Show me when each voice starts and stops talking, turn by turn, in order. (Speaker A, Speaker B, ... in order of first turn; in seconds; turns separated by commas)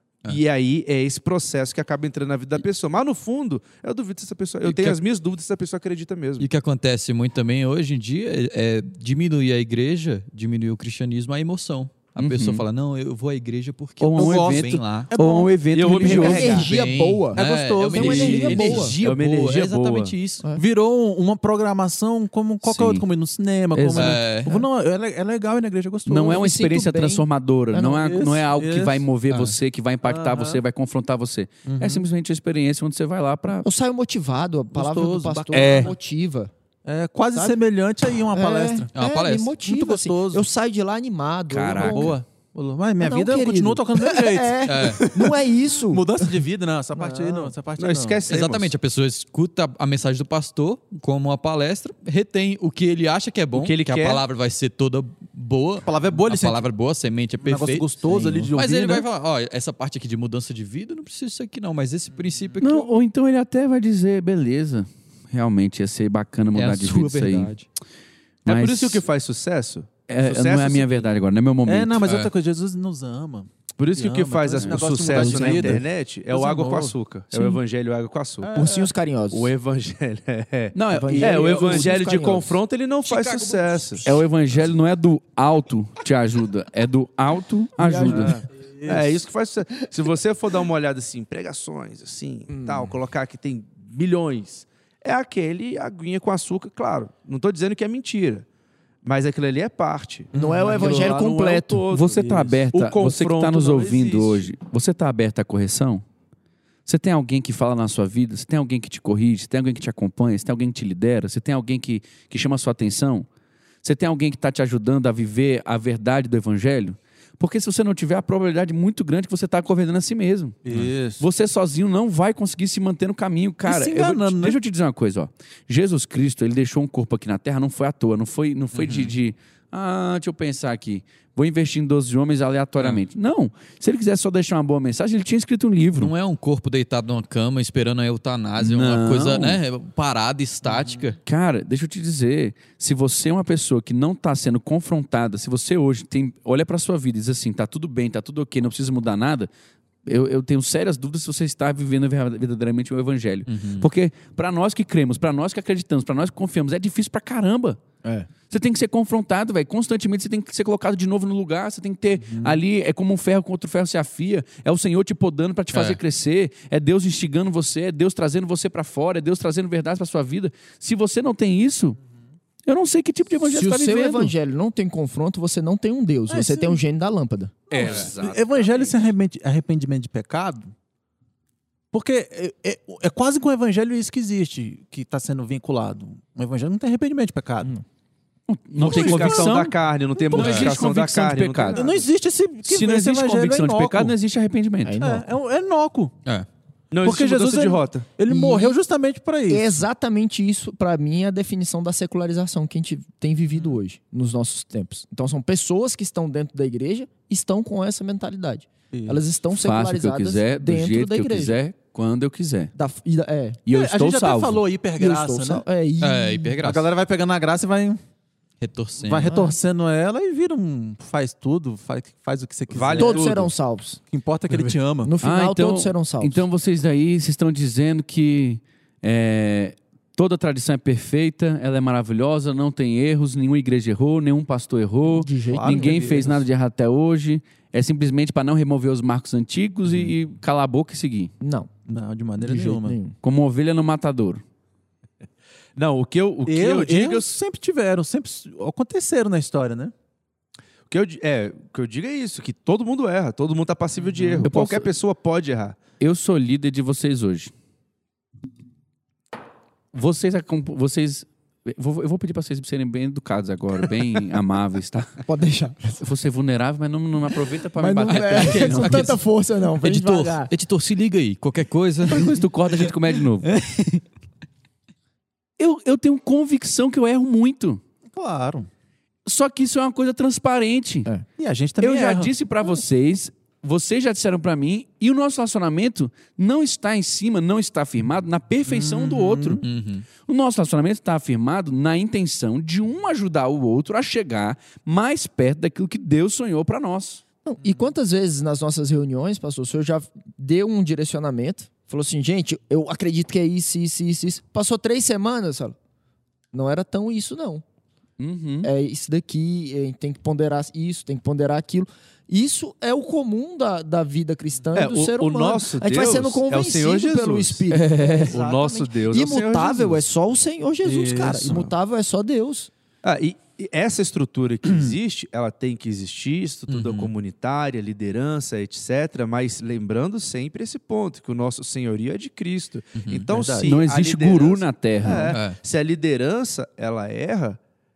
Speaker A: 0.2-6.5, Speaker B: 4.6-5.0, Speaker B: 6.4-15.1, Speaker C: 12.2-12.6, Speaker C: 14.0-16.6, Speaker D: 14.2-16.4, Speaker A: 15.7-16.7, Speaker B: 16.1-20.4, Speaker E: 16.1-17.4, Speaker D: 17.3-19.0, Speaker E: 17.9-18.9, Speaker A: 19.0-20.1, Speaker D: 20.6-26.4, Speaker C: 22.6-23.0, Speaker C: 23.7-24.2, Speaker B: 23.9-24.6, Speaker C: 26.1-33.6, Speaker E: 26.2-27.9, Speaker D: 27.8-29.0, Speaker B: 29.3-29.6, Speaker D: 30.0-30.6, Speaker D: 31.6-32.0, Speaker E: 33.6-36.5, Speaker D: 34.7-35.9, Speaker C: 35.5-35.9, Speaker D: 36.8-38.9, Speaker E: 38.3-42.2, Speaker B: 38.9-39.5, Speaker D: 39.6-40.5, Speaker C: 41.5-42.1, Speaker D: 41.8-48.2, Speaker E: 43.0-46.2, Speaker B: 44.6-45.0, Speaker E: 47.0-47.5, Speaker A: 47.8-48.7, Speaker B: 48.3-57.9, Speaker A: 53.5-54.2, Speaker D: 55.8-56.7, Speaker D: 57.4-59.0, Speaker E: 58.1-58.5, Speaker B: 58.5-62.8, Speaker D: 62.2-62.6, Speaker C: 62.6-67.5, Speaker B: 66.5-67.7, Speaker C: 68.4-69.0, Speaker A: 68.4-71.1, Speaker C: 70.1-72.1, Speaker D: 71.6-77.0, Speaker B: 72.0-72.3, Speaker A: 73.8-78.5, Speaker C: 74.6-74.9, Speaker E: 75.2-75.7, Speaker E: 77.3-77.6, Speaker D: 78.4-78.9, Speaker E: 78.5-79.5, Speaker A: 79.3-84.0, Speaker C: 80.7-81.8, Speaker E: 80.9-82.6, Speaker D: 81.2-81.9, Speaker D: 83.1-83.8, Speaker C: 84.0-88.4, Speaker E: 87.8-88.3, Speaker A: 88.0-98.5, Speaker D: 88.1-89.2, Speaker E: 92.5-92.9, Speaker A: 99.0-104.5, Speaker D: 100.3-101.1, Speaker E: 100.3-101.8, Speaker C: 101.9-106.0, Speaker C: 106.8-113.3, Speaker C: 113.8-120.6, Speaker D: 120.6-121.2, Speaker C: 121.2-136.1, Speaker D: 123.6-124.6, Speaker B: 128.7-129.1, Speaker B: 136.0-141.2, Speaker C: 138.6-139.6, Speaker C: 141.2-149.5, Speaker C: 150.0-157.8, Speaker B: 153.5-153.9, Speaker C: 158.5-172.0, Speaker D: 162.3-162.6, Speaker B: 165.7-166.0, Speaker C: 172.7-174.3, Speaker E: 173.4-177.6, Speaker D: 176.3-176.8, Speaker D: 177.7-180.7, Speaker C: 177.7-179.0, Speaker D: 181.9-187.7, Speaker C: 188.5-189.8, Speaker D: 188.8-189.6, Speaker A: 188.8-192.1, Speaker D: 190.1-190.7, Speaker C: 190.3-191.9, Speaker B: 190.3-190.7, Speaker D: 191.7-194.2, Speaker C: 192.6-195.0, Speaker E: 194.8-195.3, Speaker D: 195.0-196.1, Speaker A: 196.9-198.1, Speaker D: 197.0-199.8, Speaker E: 198.2-198.8, Speaker E: 199.5-211.6, Speaker D: 208.9-209.2, Speaker C: 209.5-212.7, Speaker E: 212.7-213.6, Speaker C: 213.7-214.6, Speaker D: 213.7-215.6, Speaker E: 215.0-216.6, Speaker B: 216.0-216.9, Speaker D: 216.6-218.0, Speaker B: 218.6-219.3, Speaker D: 219.0-223.5, Speaker E: 219.2-219.6, Speaker A: 222.7-223.5, Speaker E: 222.9-224.0, Speaker D: 224.1-225.1, Speaker E: 225.0-226.4, Speaker C: 225.2-241.3, Speaker E: 235.1-235.9, Speaker D: 235.4-236.4, Speaker E: 241.4-241.7, Speaker D: 241.9-243.0, Speaker E: 242.4-243.2, Speaker C: 243.2-244.4, Speaker A: 245.8-247.3, Speaker D: 246.4-249.9, Speaker A: 250.9-255.8, Speaker C: 254.4-254.9, Speaker C: 256.0-257.5, Speaker C: 259.9-265.2, Speaker E: 265.3-266.0, Speaker C: 266.0-269.2, Speaker E: 267.8-270.5, Speaker B: 268.1-269.2, Speaker B: 269.8-272.4, Speaker C: 272.1-273.5, Speaker B: 273.4-274.0, Speaker C: 275.6-277.8, Speaker D: 278.1-278.7, Speaker C: 279.2-281.1, Speaker D: 281.4-282.3, Speaker C: 281.8-289.6, Speaker D: 288.6-289.6, Speaker B: 289.6-290.1, Speaker C: 290.2-297.2, Speaker E: 297.4-305.8, Speaker E: 306.5-307.6, Speaker C: 308.2-308.7, Speaker E: 308.6-322.7, Speaker A: 314.7-317.6, Speaker C: 317.7-318.4, Speaker A: 318.2-320.0, Speaker D: 320.8-321.7, Speaker A: 323.0-337.6, Speaker D: 324.7-324.9, Speaker B: 326.7-327.1, Speaker B: 332.9-333.3, Speaker D: 333.2-333.7, Speaker C: 333.6-335.4, Speaker B: 335.3-335.6